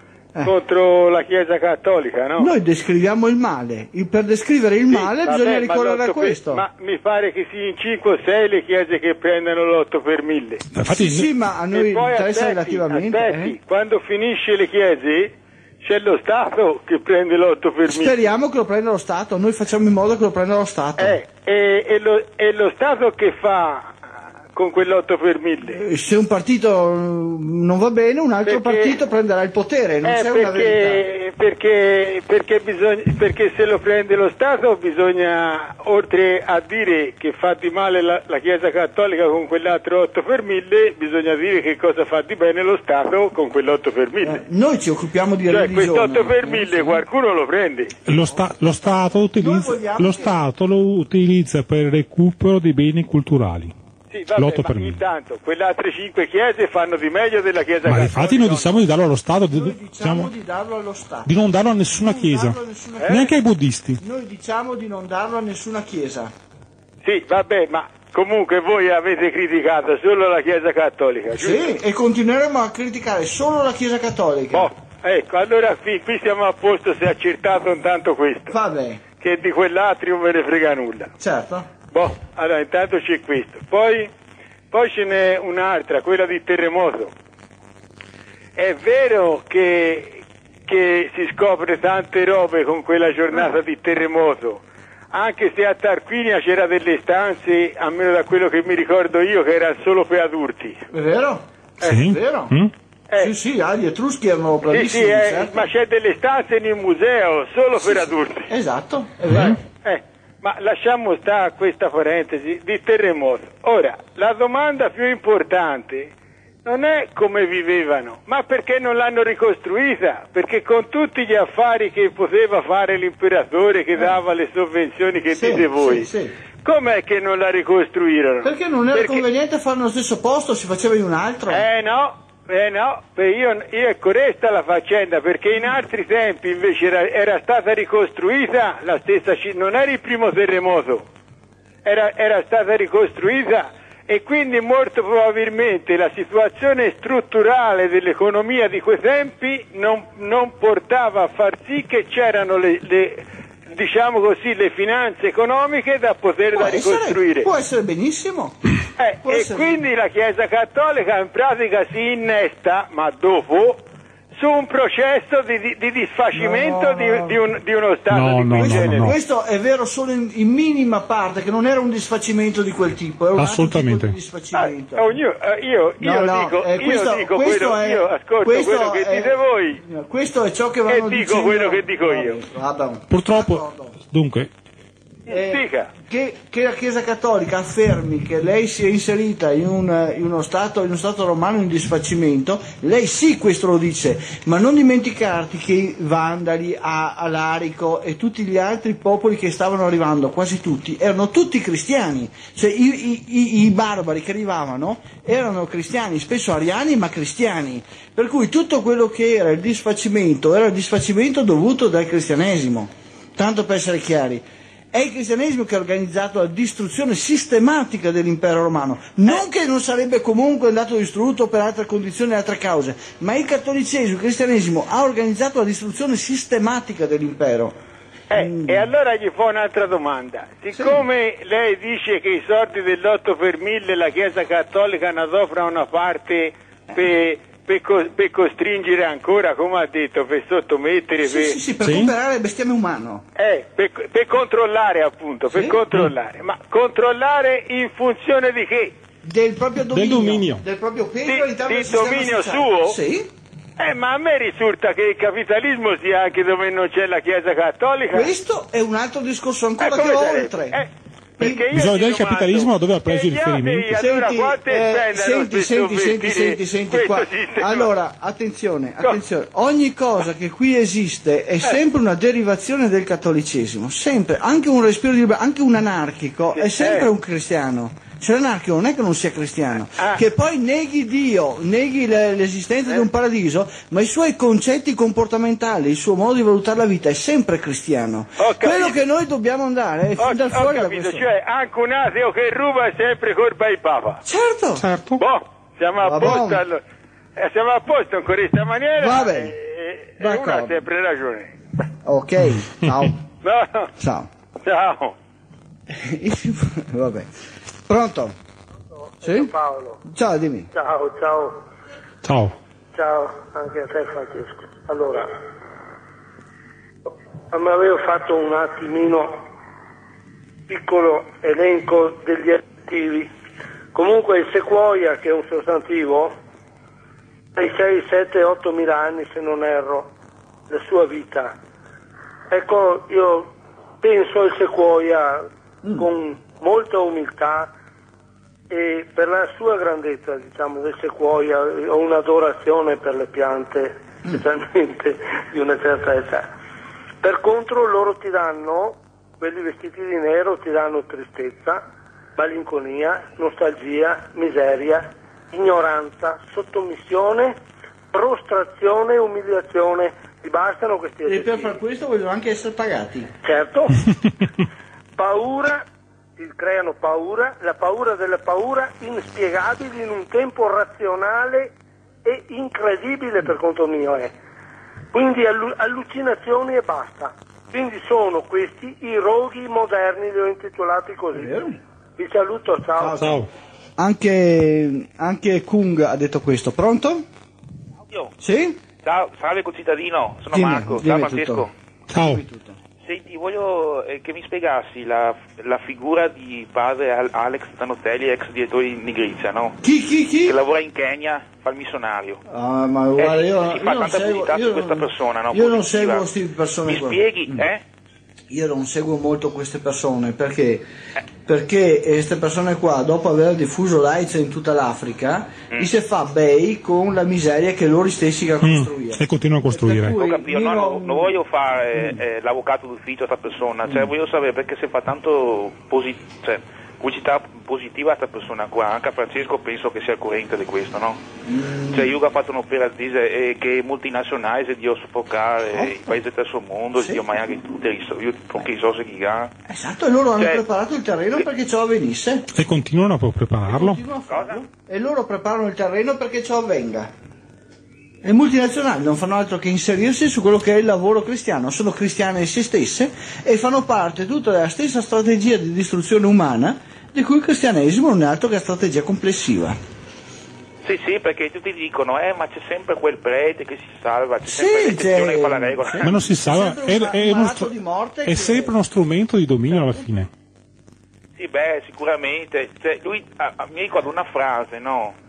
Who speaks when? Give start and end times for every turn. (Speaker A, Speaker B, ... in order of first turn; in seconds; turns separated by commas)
Speaker A: 0.5-2.5, Speaker B: 2.4-6.6, Speaker A: 4.9-10.7, Speaker C: 10.7-11.3, Speaker B: 10.8-13.6, Speaker A: 11.7-15.3, Speaker A: 15.8-18.2, Speaker B: 17.9-21.2, Speaker A: 21.0-23.9, Speaker A: 24.6-25.8, Speaker B: 25.7-31.1, Speaker A: 28.4-29.0, Speaker A: 30.1-44.4, Speaker B: 44.2-47.0, Speaker A: 45.5-48.0, Speaker C: 48.1-53.8, Speaker B: 49.4-50.4, Speaker A: 54.1-58.8, Speaker C: 54.3-55.0, Speaker C: 57.9-60.3, Speaker B: 59.5-61.3, Speaker C: 61.2-64.0, Speaker B: 62.0-63.3, Speaker B: 64.0-66.3, Speaker A: 67.0-71.7, Speaker B: 71.3-74.7, Speaker A: 74.5-78.5, Speaker B: 78.5-79.0, Speaker A: 79.2-81.1, Speaker B: 81.2-81.7, Speaker A: 81.9-84.1, Speaker A: 84.7-87.1, Speaker A: 88.6-100.8, Speaker B: 100.9-102.5, Speaker C: 101.8-102.7, Speaker B: 103.2-105.7, Speaker A: 104.7-108.5, Speaker B: 107.8-109.6, Speaker C: 109.3-109.6, Speaker A: 109.8-116.1, Speaker A: 116.7-126.1, Speaker B: 125.3-126.3, Speaker A: 126.7-129.2, Speaker B: 128.4-131.7, Speaker A: 131.5-141.0, Speaker A: 141.8-157.5, Speaker B: 156.5-158.6, Speaker A: 159.0-163.8, Speaker B: 159.2-159.8, Speaker A: 164.3-169.2, Speaker B: 166.3-167.4, Speaker C: 168.1-169.2, Speaker B: 168.6-175.1, Speaker C: 173.4-174.2, Speaker A: 174.5-179.8, Speaker B: 176.0-183.9, Speaker A: 180.9-182.4, Speaker C: 183.1-184.5, Speaker A: 185.3-185.9, Speaker B: 185.3-227.8, Speaker A: 228.3-241.6, Speaker B: 228.4-228.9, Speaker B: 241.2-243.2, Speaker C: 241.8-242.1, Speaker A: 243.4-248.9, Speaker B: 245.5-245.8, Speaker B: 249.2-253.3, Speaker C: 249.9-250.7, Speaker A: 251.3-253.0, Speaker A: 253.8-258.3, Speaker B: 258.1-260.8, Speaker A: 259.8-267.9, Speaker B: 261.4-261.6, Speaker C: 261.7-264.1, Speaker B: 263.9-291.3, Speaker A: 276.5-277.1, Speaker A: 288.4-289.0, Speaker A: 290.2-294.2, Speaker B: 294.2-294.8, Speaker C: 294.8-295.2, Speaker A: 295.2-296.8, Speaker B: 296.0-296.6, Speaker A: 297.4-301.5, Speaker B: 299.0-299.6, Speaker B: 300.2-300.8, Speaker B: 302.1-303.2, Speaker C: 302.5-303.1, Speaker A: 303.4-303.9, Speaker B: 304.0-304.3, Speaker A: 304.6-305.1, Speaker B: 305.9-307.3, Speaker B: 307.9-308.4, Speaker D: 309.2-310.0, Speaker B: 309.2-309.5, Speaker B: 310.1-310.7, Speaker D: 310.7-311.6, Speaker C: 312.2-312.6, Speaker D: 312.9-315.4, Speaker D: 317.5-319.4, Speaker D: 320.7-323.3, Speaker D: 323.9-326.3, Speaker D: 327.6-330.1, Speaker D: 330.7-331.6, Speaker D: 332.5-337.7, Speaker D: 338.7-346.5, Speaker D: 347.2-351.8, Speaker D: 352.4-357.6, Speaker D: 358.1-361.8, Speaker B: 361.2-363.3, Speaker D: 363.4-364.0, Speaker D: 365.2-371.7, Speaker D: 372.2-374.3, Speaker D: 375.1-381.6, Speaker B: 381.3-381.8, Speaker D: 382.2-383.4, Speaker B: 383.0-383.4, Speaker C: 383.2-383.5, Speaker B: 384.0-387.2, Speaker B: 388.4-388.8, Speaker E: 389.0-391.7, Speaker B: 390.5-391.7, Speaker C: 392.1-392.4, Speaker B: 392.2-392.8, Speaker E: 393.0-399.8, Speaker B: 399.8-400.6, Speaker E: 400.5-402.4, Speaker B: 402.5-407.7, Speaker E: 403.2-406.3, Speaker E: 406.9-407.8, Speaker B: 408.5-410.9, Speaker B: 411.5-421.4, Speaker C: 418.6-420.2, Speaker E: 420.1-431.2, Speaker B: 431.4-432.2, Speaker E: 431.8-439.5, Speaker B: 435.7-436.1, Speaker B: 437.0-437.2, Speaker B: 439.7-442.5, Speaker C: 442.5-444.0, Speaker B: 443.7-447.1, Speaker E: 444.3-444.6, Speaker B: 448.2-459.8, Speaker E: 460.8-466.2, Speaker B: 464.4-468.7, Speaker C: 466.0-467.7, Speaker C: 468.3-470.3, Speaker E: 471.4-475.1